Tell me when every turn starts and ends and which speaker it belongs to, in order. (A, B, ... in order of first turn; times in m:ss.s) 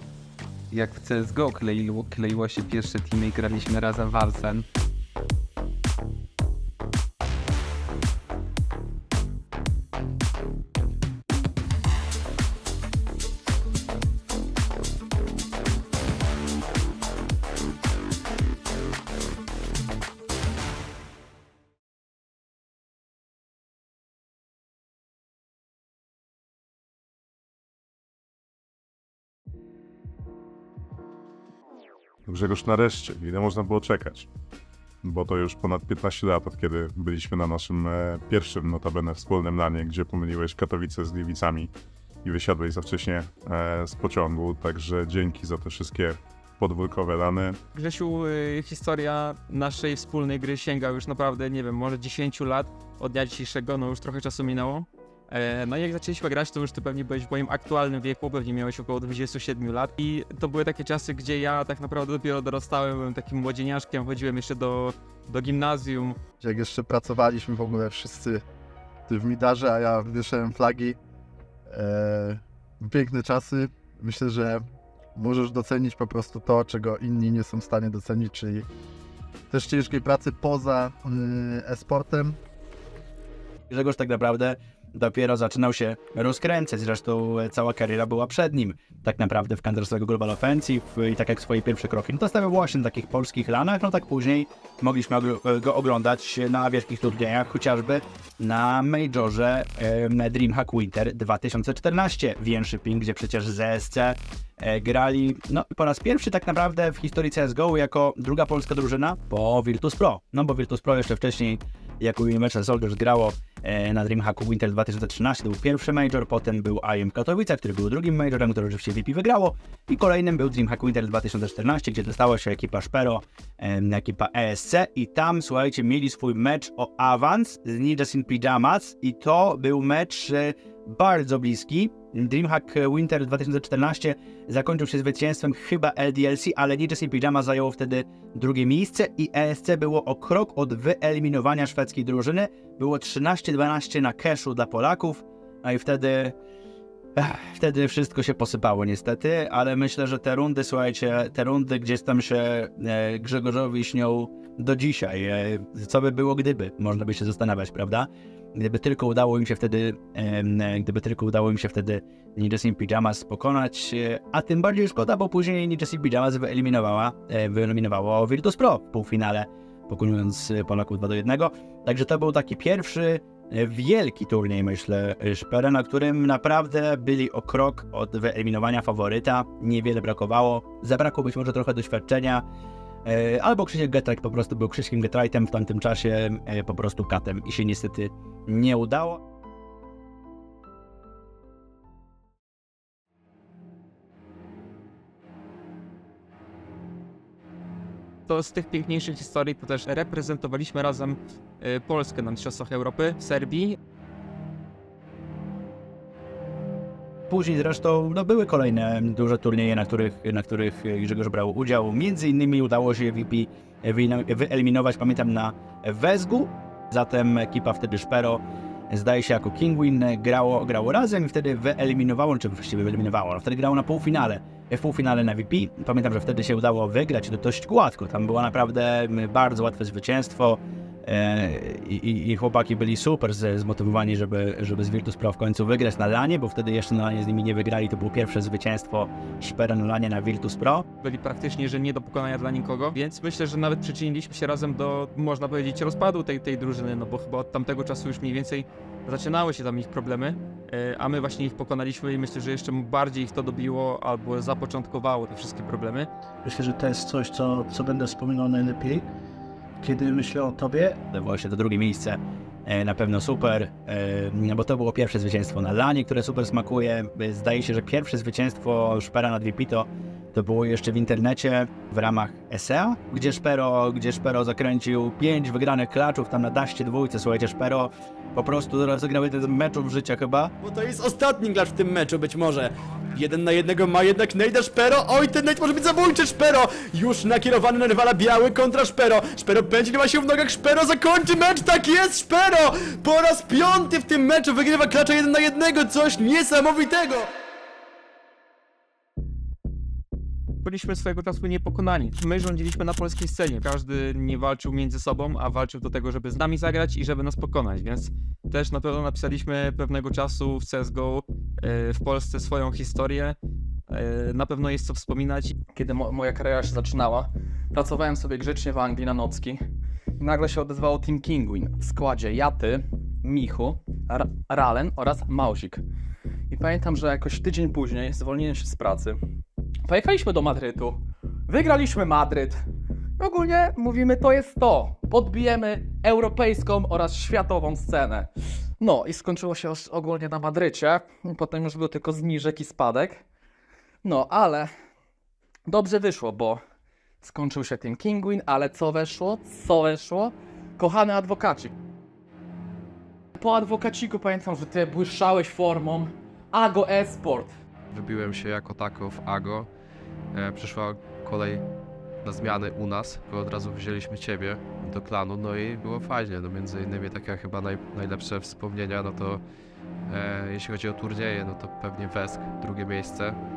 0:00.7-0:04.6 A
0:32.3-0:34.3 B
0:35.0-0:41.7 B
0:42.2-0:47.6 B
0:47.7-1:06.2 C
1:06.4-1:08.4 D
1:09.1-1:11.0 D
1:11.7-1:14.6 D
1:15.1-1:18.7 D
1:19.5-1:22.4 D
1:23.7-2:26.3 E
2:27.2-3:02.4 E
3:03.0-3:09.2 E
3:18.3-3:23.8 C
3:27.3-4:00.8 E
4:01.0-4:16.1 C
4:16.4-4:19.1 F
4:19.8-4:21.0 F
4:21.1-4:40.5 E
4:41.5-4:42.2 G
4:44.4-4:46.3 G
4:49.9-4:52.8 G
4:53.5-4:56.0 G
5:00.6-5:13.4 C
5:13.9-5:15.5 C
5:15.7-5:19.6 H
5:20.2-5:25.8 H
5:26.5-5:29.2 H
5:29.8-5:32.6 H
5:33.2-5:38.3 H
5:38.8-5:43.2 H
5:44.0-5:44.7 H
5:45.7-5:46.6 H
5:47.2-5:51.7 H
5:53.4-5:57.5 H
5:57.9-5:59.7 I
6:00.3-6:01.6 I
6:02.2-6:09.4 I
6:10.1-6:13.4 I